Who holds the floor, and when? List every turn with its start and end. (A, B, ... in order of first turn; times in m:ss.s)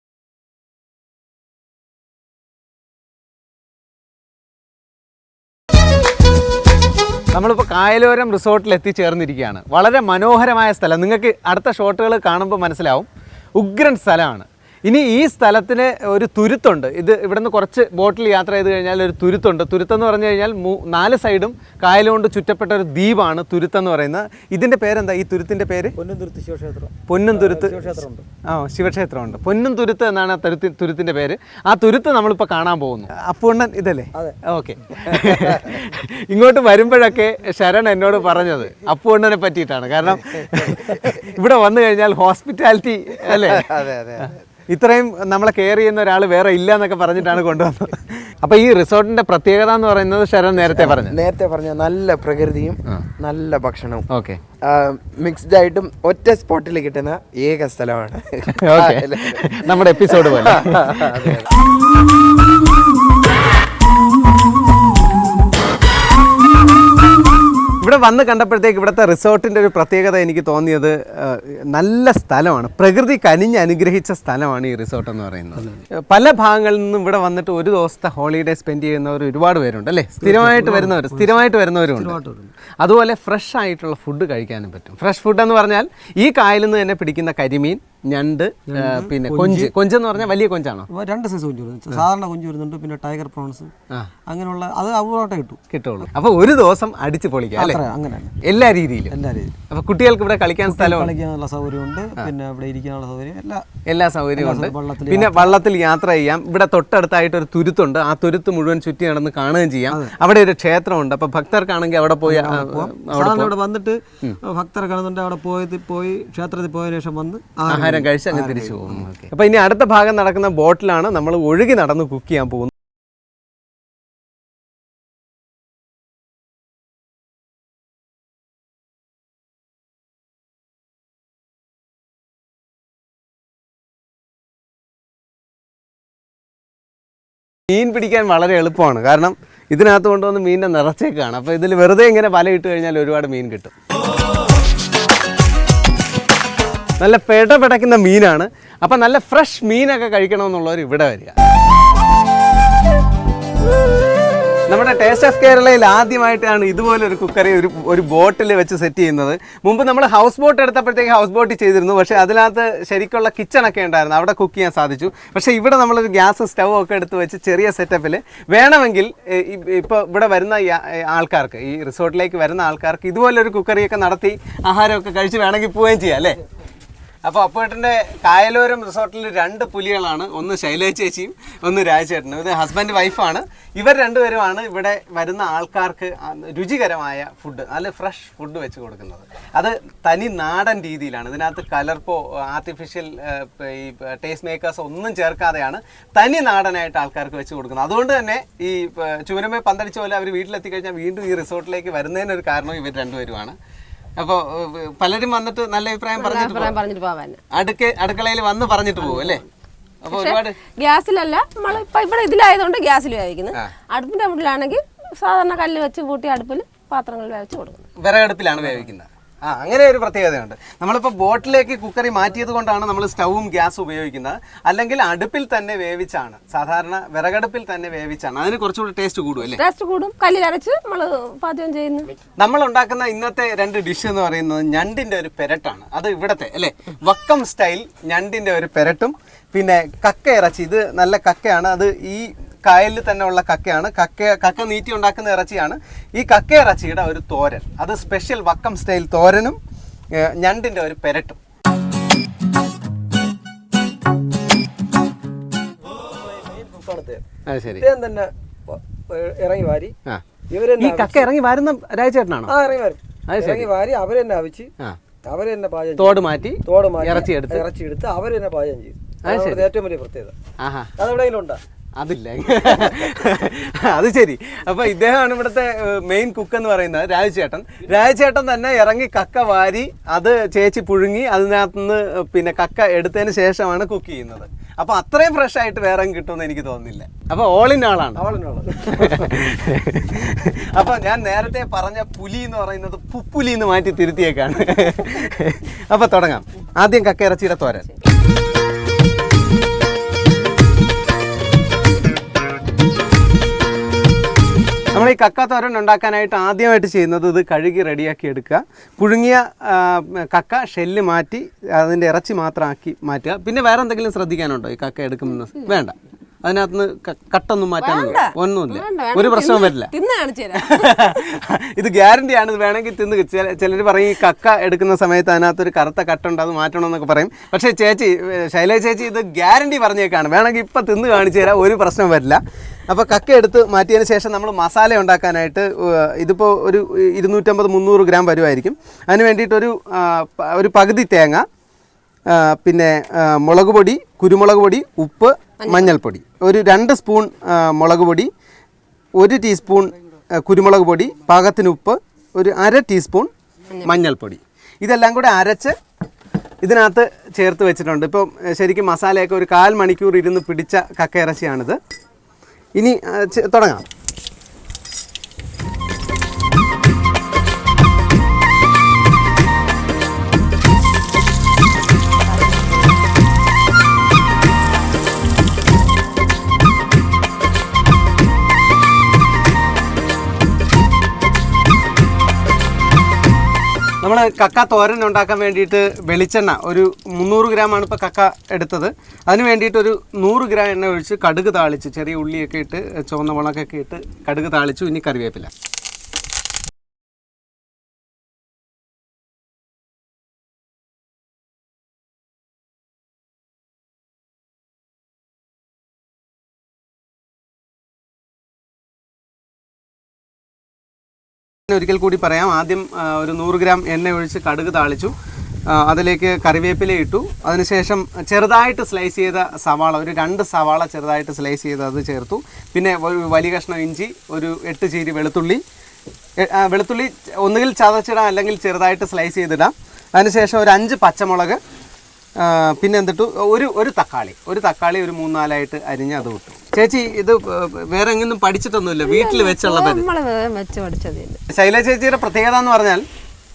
0:07.3-0:25.9 A
0:26.0-0:28.2 B
0:27.1-0:43.7 A
0:43.3-0:44.4 C
0:44.2-0:51.2 A
0:50.6-0:54.0 C
0:54.1-0:54.4 A
0:54.6-1:01.4 C
0:58.4-1:01.3 A
1:07.8-1:22.2 A
1:20.2-1:21.4 B
1:22.0-1:22.5 B
1:22.8-1:30.9 A
1:28.7-1:29.7 B
1:30.9-1:33.7 B
1:34.3-1:35.6 B
1:35.7-1:37.8 A
1:37.6-1:38.4 B
1:38.4-1:39.1 A
1:39.1-1:39.5 B
1:39.7-1:41.1 A
1:40.6-1:43.6 B
1:43.9-1:53.5 A
1:44.4-1:45.6 B
1:52.2-1:59.1 B
1:57.6-2:02.7 A
2:17.7-2:23.7 A
2:27.0-2:31.4 A
2:34.7-2:56.4 A
2:57.2-3:23.6 A
3:24.2-3:26.8 A
3:26.2-3:27.4 D
3:27.5-3:29.4 A
3:30.0-3:30.6 A
3:30.1-3:37.8 D
3:38.0-3:49.6 A
3:49.4-3:52.1 D
3:52.4-4:09.6 A
4:10.1-4:11.4 A
4:16.5-4:17.2 B
4:17.4-4:17.9 A
4:17.8-4:19.9 B
4:20.5-4:21.3 B
4:20.8-4:22.5 A
4:22.5-4:24.7 B
4:23.3-4:23.7 A
4:25.2-4:30.3 B
4:26.0-4:27.6 A
4:29.2-4:29.7 A
4:30.6-4:30.9 A
4:31.0-4:31.6 B
4:32.0-4:48.2 A
4:48.2-4:49.2 B
4:48.8-4:57.9 A
5:04.9-5:19.9 A
5:17.8-5:21.1 D
5:20.6-5:41.4 A
5:42.3-5:48.3 A
5:45.6-5:46.0 D
5:49.2-5:53.3 A
5:53.8-5:54.0 D
5:53.8-5:55.7 A
5:56.6-6:01.8 A
6:02.8-6:03.8 A
6:24.0-6:35.5 A
6:51.7-6:55.1 A
6:55.7-7:05.6 A
7:06.4-7:11.6 A
7:12.4-7:20.1 A
7:19.0-7:21.4 D
7:21.5-7:23.0 A